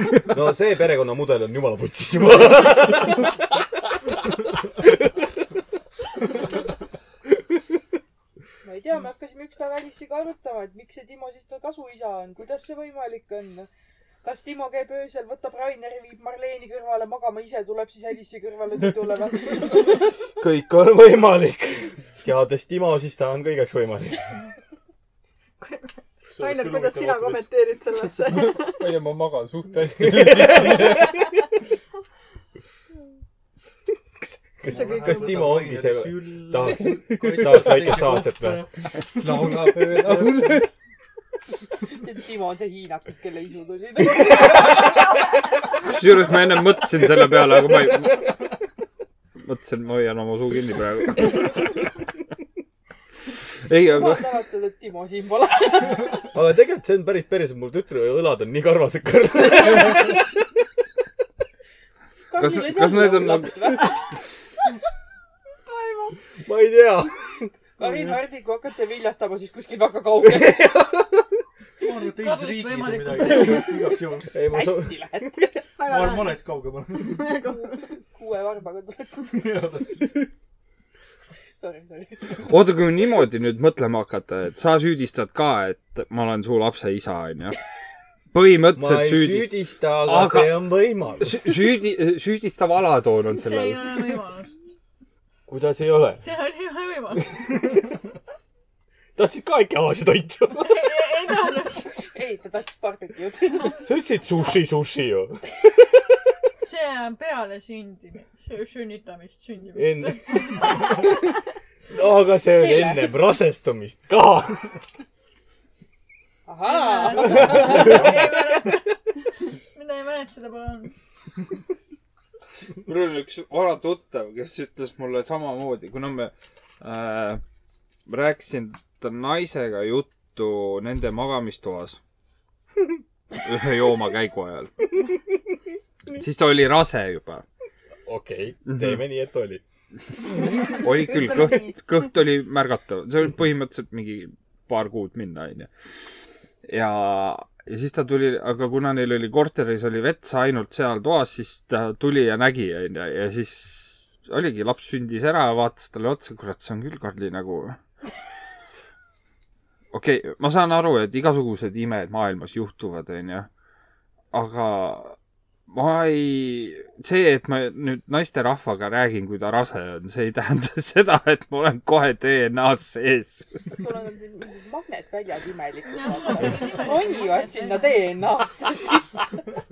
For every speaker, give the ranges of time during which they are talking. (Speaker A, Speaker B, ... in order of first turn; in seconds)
Speaker A: 0.3-3.3, 20.4-24.2, 30.1-31.0, 34.2-38.6, 56.3-60.2, 66.4-67.5, 70.2-71.2, 74.3-75.3, 88.7-91.6, 95.5-96.2, 99.2-100.8, 103.8-105.4, 109.8-111.0, 111.9-114.7, 138.1-139.6
Speaker B: 8.6-13.7, 14.2-20.0, 41.9-44.9, 53.9-56.3, 62.3-64.0, 67.8-70.7, 74.4-75.7, 77.6-79.6, 81.6-82.5, 102.0-103.8, 112.5-113.2, 116.5-118.2, 173.7-179.3
Speaker C: 25.6-25.9, 26.4-29.0, 34.6-35.3, 65.5-66.2, 75.8-76.5, 77.0-77.8, 141.0-141.4
Speaker D: 26.3-27.5, 34.6-40.6, 67.8-68.2, 71.8-74.4, 75.8-77.4, 79.3-80.3
Speaker E: 28.2-31.1, 39.2-40.8
Speaker F: 45.8-48.4, 49.4-51.8, 53.6-54.3, 62.4-63.6, 82.4-87.6, 88.3-90.6, 91.2-94.0, 122.8-127.4, 128.1-132.0, 133.4-134.7, 136.1-137.4, 138.7-139.0, 140.5-145.7, 146.6-157.8, 159.9-163.5, 164.3-165.2, 165.7-173.6
Speaker G: 72.0-73.7, 93.3-94.7, 96.2-97.7, 100.6-101.9, 106.6-111.0, 116.7-118.8, 119.7-120.9, 175.9-178.2